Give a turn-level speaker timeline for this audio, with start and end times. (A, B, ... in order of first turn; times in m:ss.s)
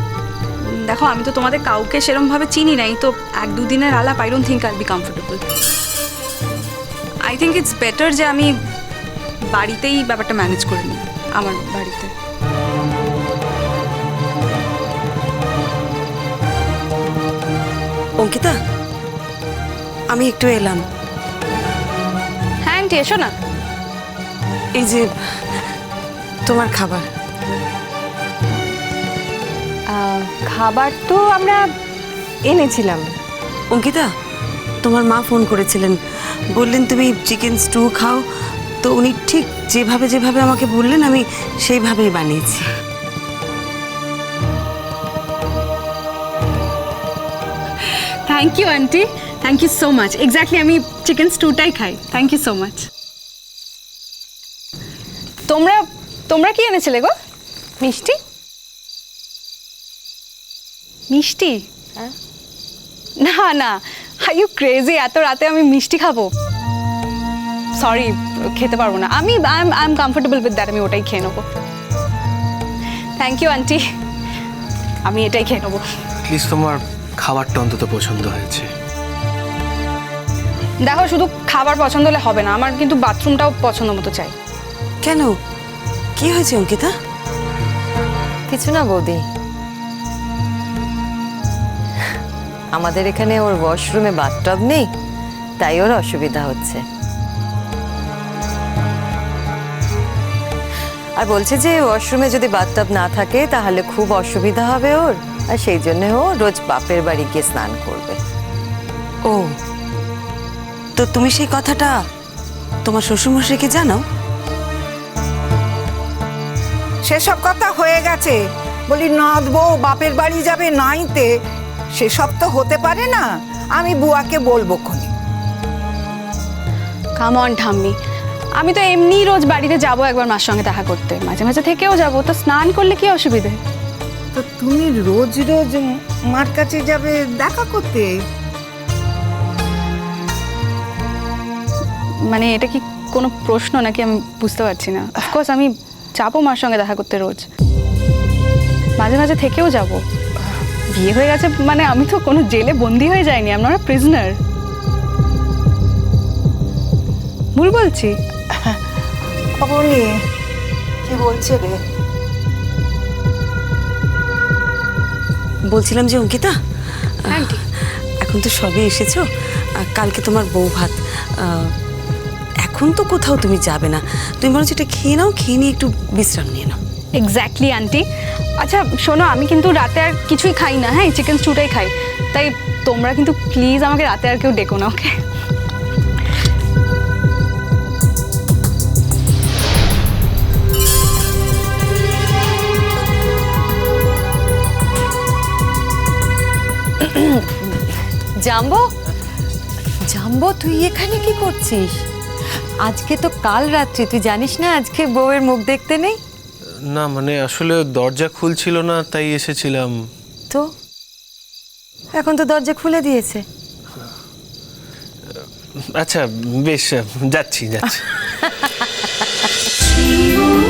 0:00.7-0:05.5 A
0:07.2-0:08.5 A
0:09.5-0:12.1 A
0:18.2-0:18.6 B
0:20.1-0:20.8 B
0:22.6-0:23.3 A
0:24.8-0:25.1 B
0:26.5-0:27.1 B
0:29.9-0:31.6 C
0:32.4-0:33.2 C
0:33.7-0:34.1 B
0:34.8-0:36.0 B
0:36.6-0:38.2 B
0:38.8-0:42.6 B
0:48.2-0:52.9 A
0:55.5-0:57.1 A
0:57.8-0:58.1 A
1:01.1-1:01.6 A
1:03.2-1:06.3 A
1:07.8-1:11.4 A
1:13.2-1:13.8 A
1:15.0-1:15.8 A
1:16.2-1:18.7 D
1:20.8-1:24.4 A
1:25.0-1:25.3 B
1:26.2-1:26.9 B
1:28.5-1:29.2 E
1:32.7-1:34.9 E
1:35.6-1:36.8 E
1:41.2-1:48.2 E
1:49.3-1:49.6 B
1:51.0-1:51.9 B
1:52.8-1:54.0 B
1:57.1-2:01.3 F
2:02.0-2:05.1 F
2:07.2-2:08.0 A
2:08.6-2:13.6 A
2:14.3-2:18.1 F
2:22.3-2:27.5 A
2:29.0-2:30.0 A
2:30.9-2:34.4 A
2:37.6-2:38.2 A
2:39.6-2:40.1 F
2:41.0-2:41.8 F
2:45.7-2:46.6 B
2:47.2-2:47.6 B
2:47.3-2:47.6 A
2:48.2-2:49.2 B
2:49.8-2:51.7 B
2:52.6-2:56.8 B
2:57.2-2:58.0 A
2:58.6-3:05.1 A
3:17.0-3:17.8 E
3:18.4-3:18.9 E
3:20.1-3:22.0 E
3:22.8-3:26.2 E
3:26.9-3:29.9 D
3:32.2-3:33.4 E
3:35.3-3:38.2 D